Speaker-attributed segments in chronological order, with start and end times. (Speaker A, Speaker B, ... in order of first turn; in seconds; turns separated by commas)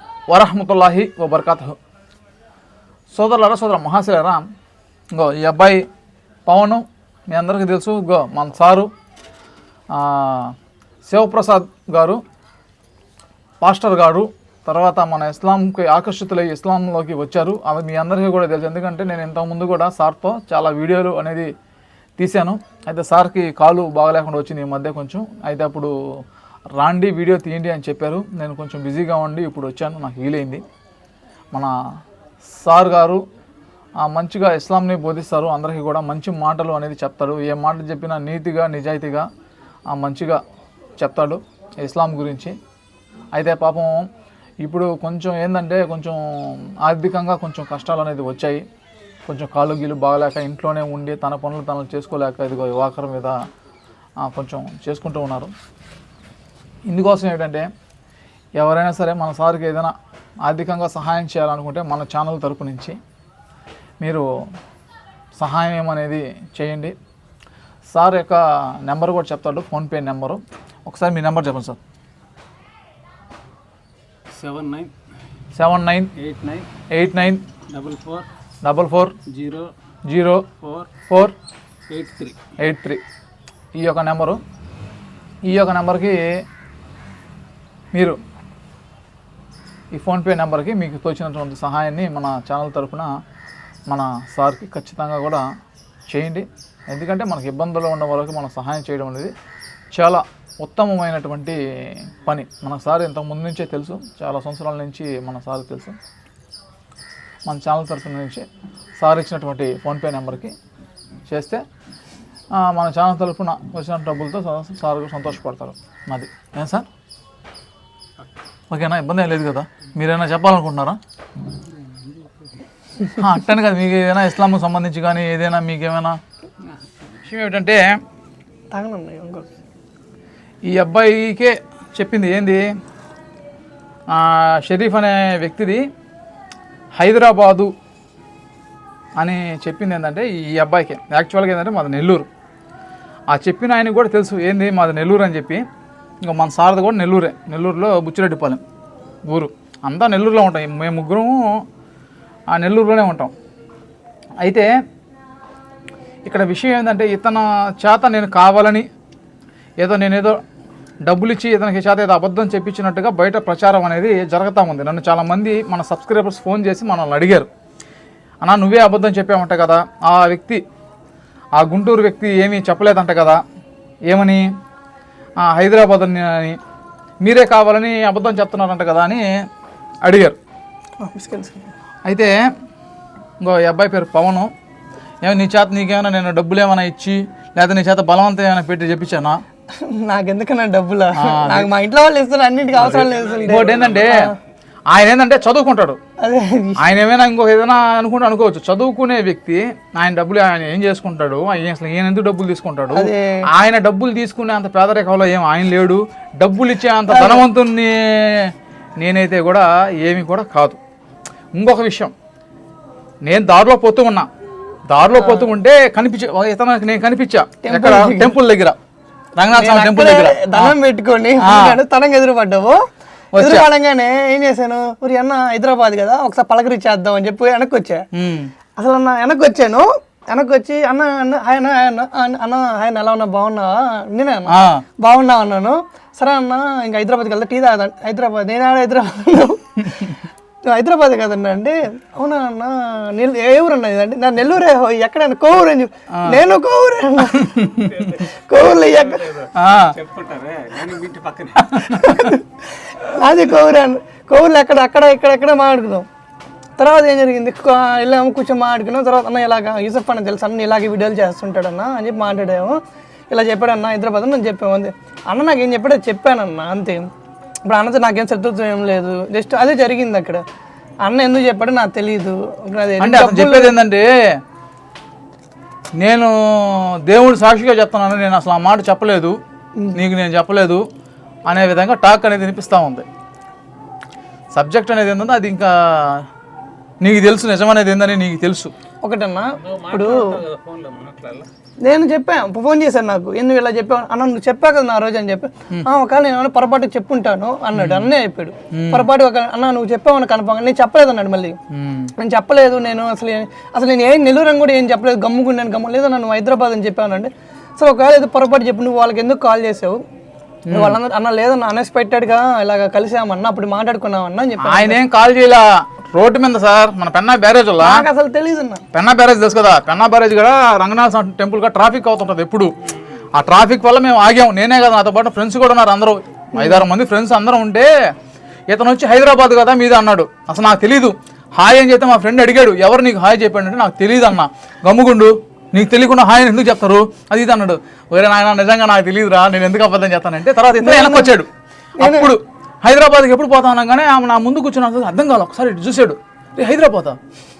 Speaker A: 0.3-1.8, Speaker A: 3.1-4.4, Speaker A: 5.1-5.8, Speaker A: 6.5-8.9, Speaker A: 9.9-10.5, Speaker A: 11.1-12.2, Speaker A: 13.6-21.5, Speaker A: 22.2-25.9, Speaker A: 26.8-30.6, Speaker A: 32.5-33.2, Speaker A: 34.0-39.3, Speaker A: 39.9-40.4, Speaker A: 41.0-42.5, Speaker A: 43.3-44.1, Speaker A: 44.6-48.6, Speaker A: 49.2-53.4, Speaker A: 54.2-55.5, Speaker A: 56.9-57.7, Speaker A: 58.6-63.0, Speaker A: 64.0-64.3, Speaker A: 65.4-66.9, Speaker A: 67.9-71.8, Speaker B: 74.3-74.9, Speaker A: 75.5-76.1, Speaker B: 76.2-76.7, Speaker A: 76.9-77.4, Speaker B: 77.7-78.3, Speaker A: 78.6-79.1, Speaker B: 79.2-79.7, Speaker A: 80.0-80.5, Speaker B: 80.5-80.9, Speaker B: 81.9-82.4, Speaker A: 82.6-83.0, Speaker A: 83.8-84.4, Speaker A: 85.4-86.4, Speaker A: 87.9-88.2, Speaker A: 89.9-93.1, Speaker A: 93.9-95.5, Speaker A: 96.1-99.3, Speaker A: 99.9-106.0, Speaker A: 107.5-108.5, Speaker A: 109.0-110.5, Speaker A: 111.3-111.6, Speaker A: 112.5-116.9, Speaker A: 118.7-121.0, Speaker B: 121.6-122.6, Speaker A: 123.2-126.2, Speaker A: 127.2-128.0, Speaker C: 128.7-129.5, Speaker A: 130.7-132.7, Speaker A: 134.1-135.8, Speaker A: 137.0-137.7, Speaker A: 139.2-142.3, Speaker A: 143.3-145.6, Speaker A: 146.2-148.6, Speaker A: 149.3-151.6, Speaker A: 152.5-153.3, Speaker A: 154.4-154.7, Speaker A: 156.2-158.9, Speaker A: 159.8-160.4, Speaker A: 161.0-167.5, Speaker A: 168.4-170.6, Speaker A: 171.6-173.4, Speaker A: 174.1-174.5, Speaker A: 175.4-176.6, Speaker A: 177.2-179.4, Speaker A: 180.0-180.4, Speaker C: 181.0-181.7, Speaker A: 182.1-182.3, Speaker A: 183.4-184.5, Speaker A: 185.2-189.4, Speaker C: 189.7-194.3, Speaker A: 191.2-191.7, Speaker A: 192.8-194.3, Speaker B: 192.8-194.1, Speaker A: 194.9-196.0, Speaker C: 196.2-196.9, Speaker A: 196.8-210.8, Speaker C: 202.9-203.4, Speaker C: 207.1-207.4, Speaker A: 211.5-212.1, Speaker A: 213.2-214.3, Speaker A: 214.9-218.8, Speaker C: 215.2-215.4, Speaker C: 217.6-218.3, Speaker A: 219.4-220.7, Speaker C: 219.5-228.1, Speaker A: 221.4-221.8, Speaker A: 223.3-223.7, Speaker A: 228.1-228.5, Speaker C: 228.8-249.4, Speaker A: 234.5-234.8, Speaker A: 246.1-246.4, Speaker A: 247.3-248.0, Speaker B: 247.9-248.2, Speaker B: 249.0-252.1, Speaker A: 249.5-249.9, Speaker A: 251.8-252.0, Speaker C: 251.9-256.1, Speaker C: 256.8-267.1, Speaker C: 267.6-270.4, Speaker C: 271.0-273.7, Speaker A: 273.0-274.4, Speaker A: 276.0-279.4, Speaker A: 279.9-280.8, Speaker A: 281.5-283.1, Speaker A: 284.5-286.2, Speaker A: 287.0-288.7, Speaker C: 289.0-290.4, Speaker B: 289.5-291.5, Speaker C: 291.8-301.6, Speaker A: 297.7-298.1, Speaker A: 298.7-299.1, Speaker A: 301.7-302.1, Speaker C: 302.2-310.0, Speaker A: 310.7-311.0, Speaker C: 310.7-315.0, Speaker A: 314.6-318.1, Speaker C: 317.8-318.8, Speaker A: 318.9-322.7, Speaker A: 323.3-327.9, Speaker C: 326.5-326.9, Speaker A: 328.7-347.2, Speaker C: 340.8-341.3, Speaker C: 342.0-342.3